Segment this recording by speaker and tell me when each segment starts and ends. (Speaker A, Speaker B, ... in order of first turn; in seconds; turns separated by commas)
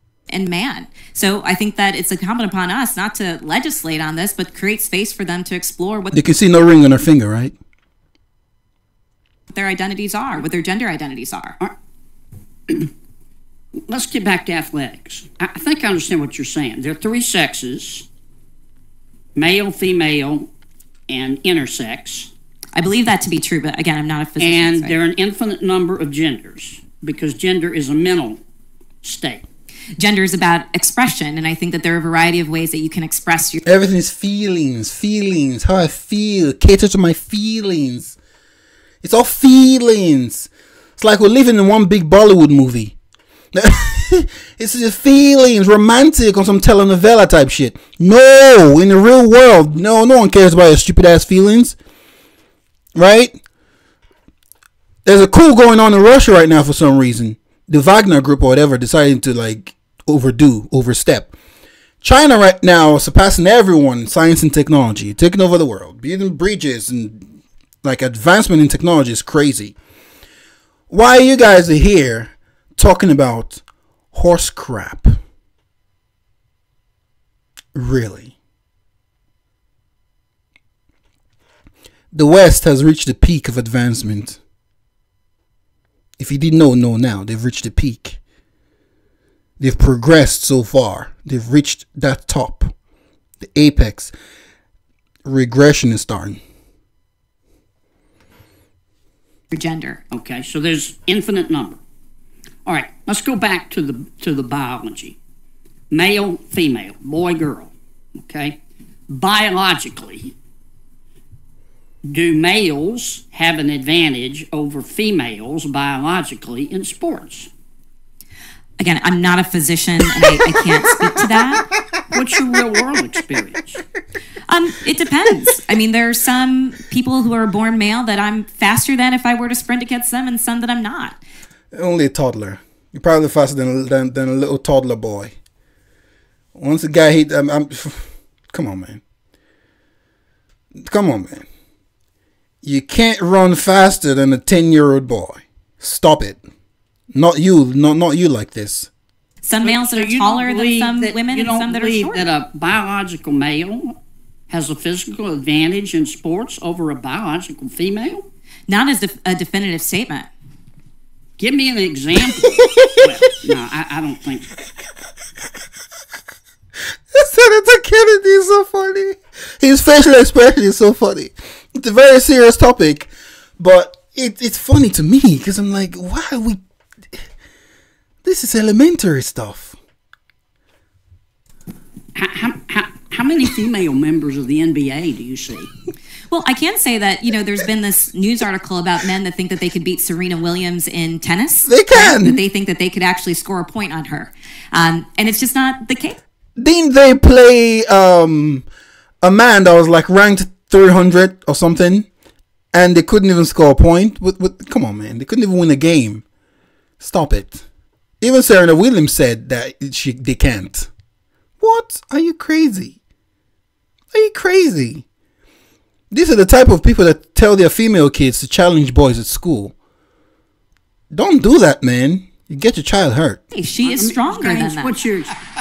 Speaker A: 0.3-6.2, Speaker B: 6.1-7.5, Speaker A: 9.5-11.6, Speaker C: 13.9-18.1, Speaker C: 19.3-20.5, Speaker C: 21.1-22.3, Speaker A: 22.7-24.9, Speaker C: 24.4-28.4, Speaker C: 29.0-29.4, Speaker A: 30.0-33.6, Speaker B: 33.6-38.1, Speaker B: 39.0-42.9, Speaker B: 43.5-51.8, Speaker B: 52.9-53.4, Speaker B: 55.0-61.3, Speaker B: 62.0-67.3, Speaker B: 67.8-69.7, Speaker B: 70.9-75.2, Speaker B: 77.7-78.3, Speaker B: 82.1-84.4, Speaker B: 86.2-88.2, Speaker B: 89.6-92.7, Speaker B: 93.4-94.1, Speaker B: 95.2-96.4, Speaker A: 99.5-100.0, Speaker C: 100.1-101.8, Speaker C: 102.6-105.2, Speaker C: 105.9-110.3, Speaker C: 112.1-117.5, Speaker A: 118.8-121.7, Speaker C: 122.1-123.8, Speaker A: 124.5-131.2, Speaker B: 131.7-135.3, Speaker B: 136.5-139.0, Speaker B: 140.8-141.4, Speaker B: 142.6-146.4, Speaker B: 147.1-148.9, Speaker A: 149.4-152.3, Speaker C: 149.6-154.0, Speaker C: 154.5-158.2, Speaker A: 158.7-160.3, Speaker C: 161.4-164.5, Speaker B: 162.5-163.0, Speaker B: 167.1-176.6, Speaker B: 178.2-179.8, Speaker C: 182.1-185.7, Speaker A: 186.3-196.2, Speaker B: 191.7-192.4, Speaker B: 196.6-198.7, Speaker B: 199.2-202.1, Speaker B: 202.7-206.2, Speaker B: 207.0-207.6, Speaker B: 208.2-210.9, Speaker B: 211.6-213.0, Speaker B: 214.1-215.0, Speaker B: 216.1-219.7, Speaker B: 221.1-223.4, Speaker A: 223.5-224.9, Speaker C: 223.9-225.4